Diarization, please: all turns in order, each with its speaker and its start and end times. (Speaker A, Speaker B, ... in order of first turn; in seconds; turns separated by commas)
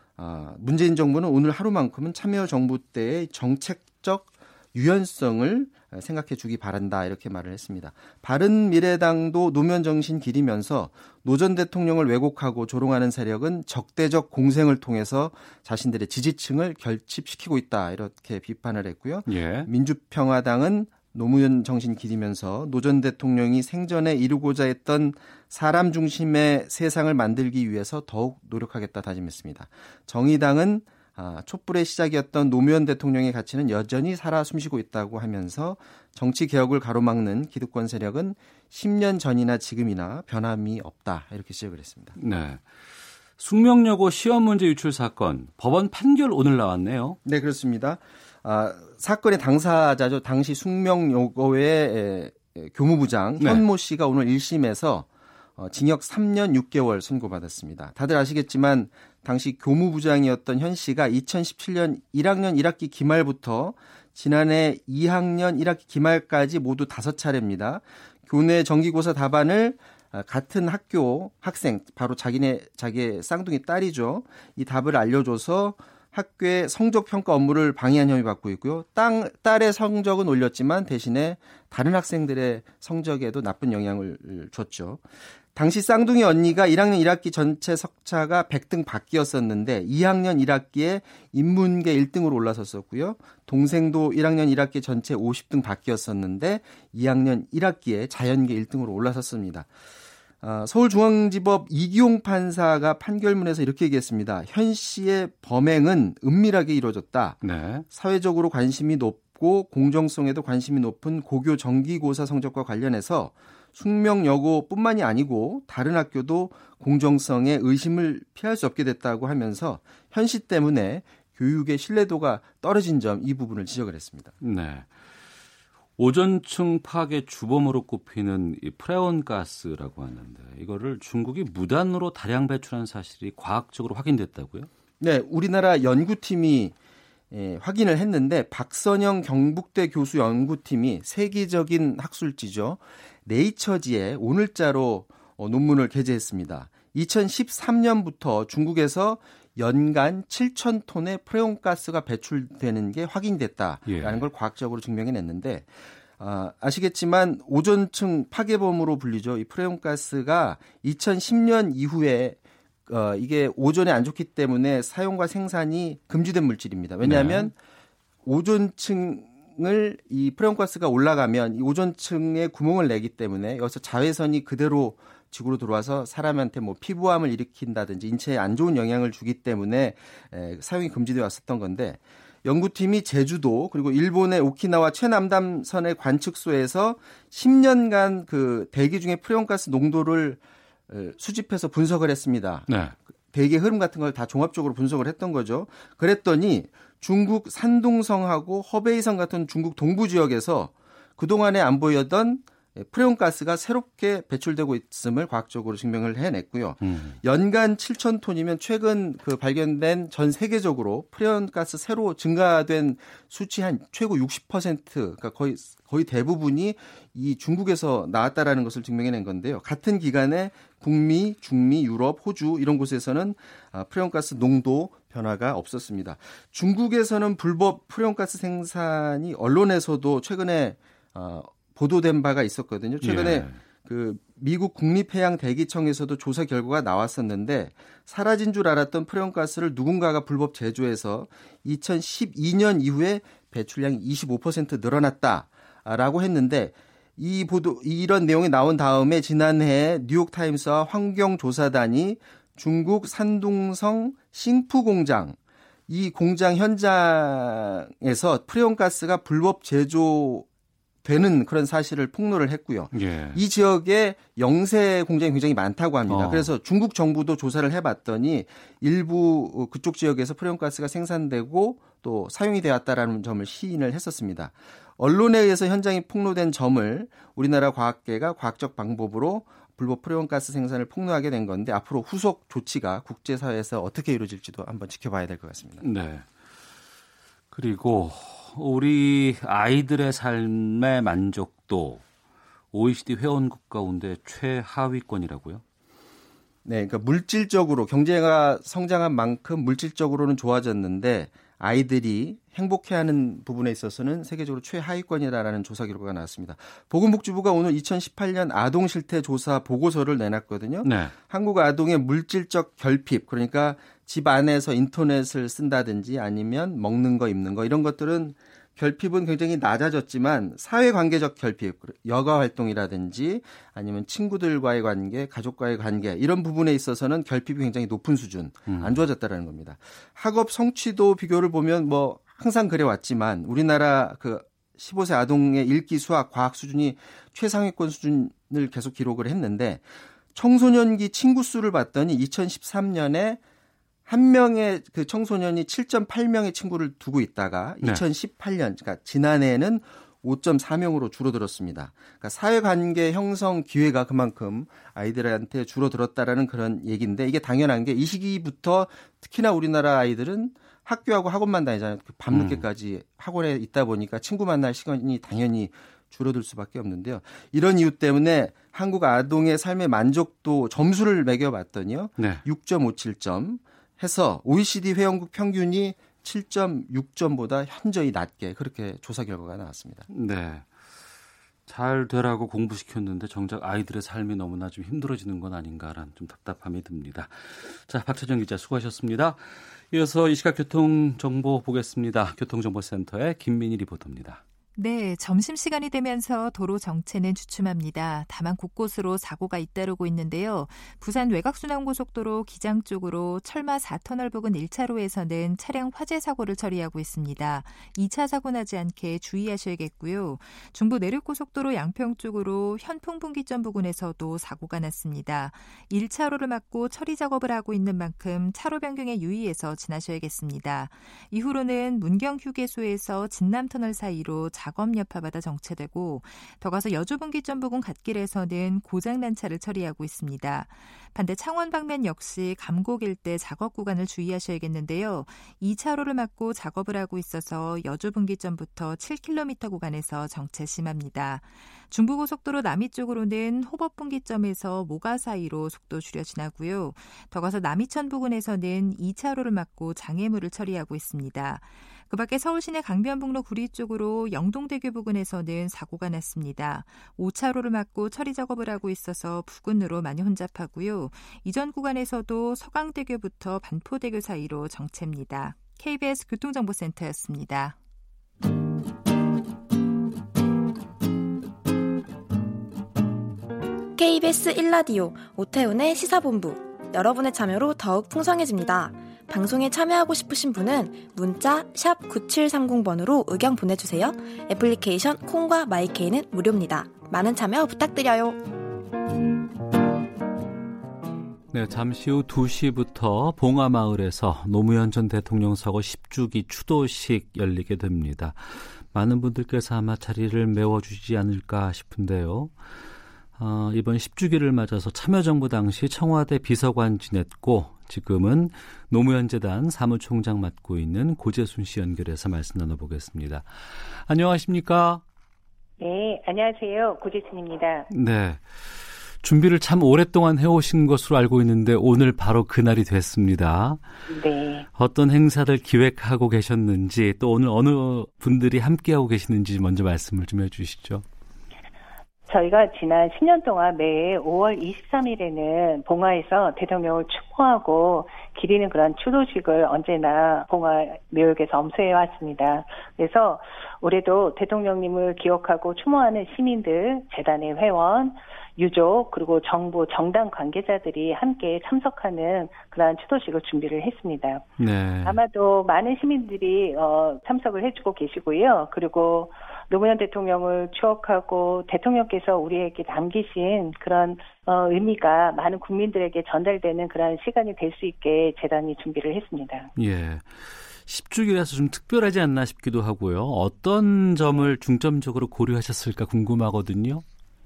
Speaker A: 0.2-42.1, Speaker B: 19.3-19.7, Speaker B: 42.1-42.6, Speaker B: 43.4-47.2, Speaker A: 47.2-99.7, Speaker A: 100.4-124.3, Speaker B: 107.4-107.8, Speaker B: 124.4-124.9, Speaker B: 126.0-134.7, Speaker A: 135.0-136.7, Speaker A: 137.3-167.5, Speaker B: 153.9-154.2, Speaker B: 167.0-167.5, Speaker A: 168.2-192.8, Speaker B: 192.7-192.9, Speaker A: 193.3-255.4, Speaker B: 206.8-207.2, Speaker B: 233.0-233.6, Speaker A: 255.9-260.5, Speaker A: 261.0-285.8, Speaker B: 262.9-263.4, Speaker B: 266.1-266.5, Speaker B: 285.8-286.3, Speaker B: 287.5-292.0, Speaker B: 292.7-295.6, Speaker A: 296.6-343.4, Speaker B: 310.8-311.1, Speaker B: 328.7-328.9, Speaker A: 344.1-380.1, Speaker B: 362.3-362.6, Speaker B: 372.2-372.4, Speaker B: 380.1-380.7, Speaker B: 381.7-394.4, Speaker C: 394.8-467.8, Speaker D: 474.0-488.4, Speaker B: 491.5-502.5, Speaker B: 503.4-515.0, Speaker E: 515.8-517.9, Speaker B: 517.9-523.8, Speaker E: 524.1-524.6, Speaker B: 524.8-531.0, Speaker E: 532.3-554.5, Speaker B: 554.6-555.2, Speaker E: 555.0-569.7, Speaker B: 569.8-577.0